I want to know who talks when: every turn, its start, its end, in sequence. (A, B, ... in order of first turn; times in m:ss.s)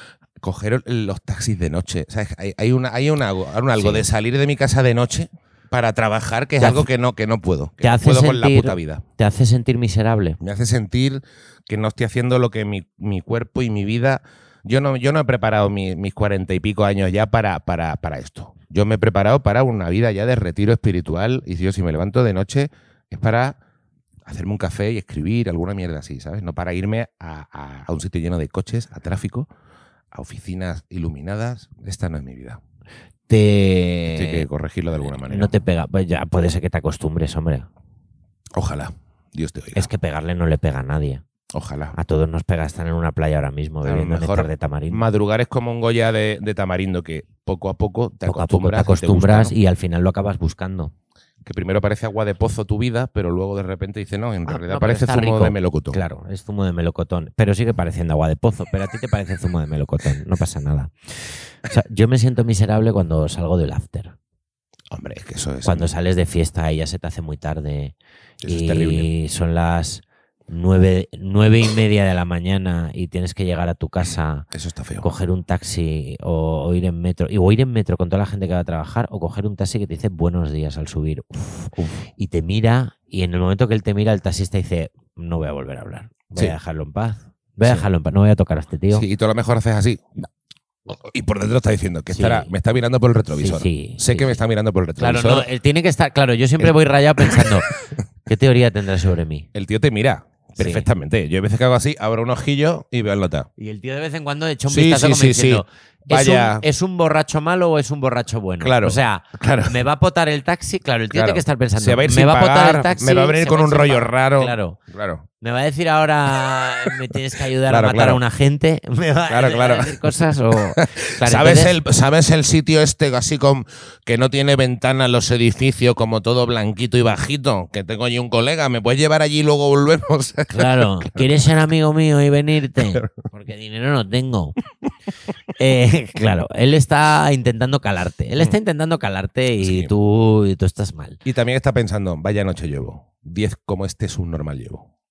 0:00.4-0:09.0 A
0:03.8-0:04.1 B
0:06.6-0:06.9 B
0:07.8-0:10.4 B
0:10.4-0:23.6 A
0:24.2-0:29.5 A
0:30.1-0:32.6 A
0:33.3-0:34.4 B
0:34.1-0:35.5 A
0:35.2-0:37.7 B
0:38.5-0:39.9 A
0:39.7-0:41.2 B
0:41.5-0:42.0 A
0:41.9-0:45.0 B
0:43.8-0:49.5 A
0:48.2-0:50.9 B
0:51.4-0:56.0 A
0:54.4-1:04.1 B
1:04.9-1:05.9 A
1:05.6-1:07.9 B
1:08.4-1:09.1 A
1:08.4-1:14.4 B
1:14.5-1:15.0 A
1:15.0-1:29.0 B
1:21.8-1:22.0 A
1:28.9-1:30.1 A
1:30.8-1:35.4 A
1:32.1-1:32.5 B
1:33.4-1:34.4 B
1:35.0-1:37.7 B
1:36.6-1:37.6 A
1:38.2-1:39.5 B
1:39.5-1:43.5 A
1:40.6-1:40.8 B
1:43.6-1:54.8 B
1:44.7-1:46.6 A
1:48.6-1:49.8 A
1:51.1-1:55.2 A
1:55.4-2:01.7 B
1:57.7-1:58.2 A
1:59.3-2:00.1 A
2:00.8-2:11.3 A
2:10.5-2:14.6 B
2:15.6-2:21.2 B
2:19.6-2:19.9 A
2:21.2-2:24.9 A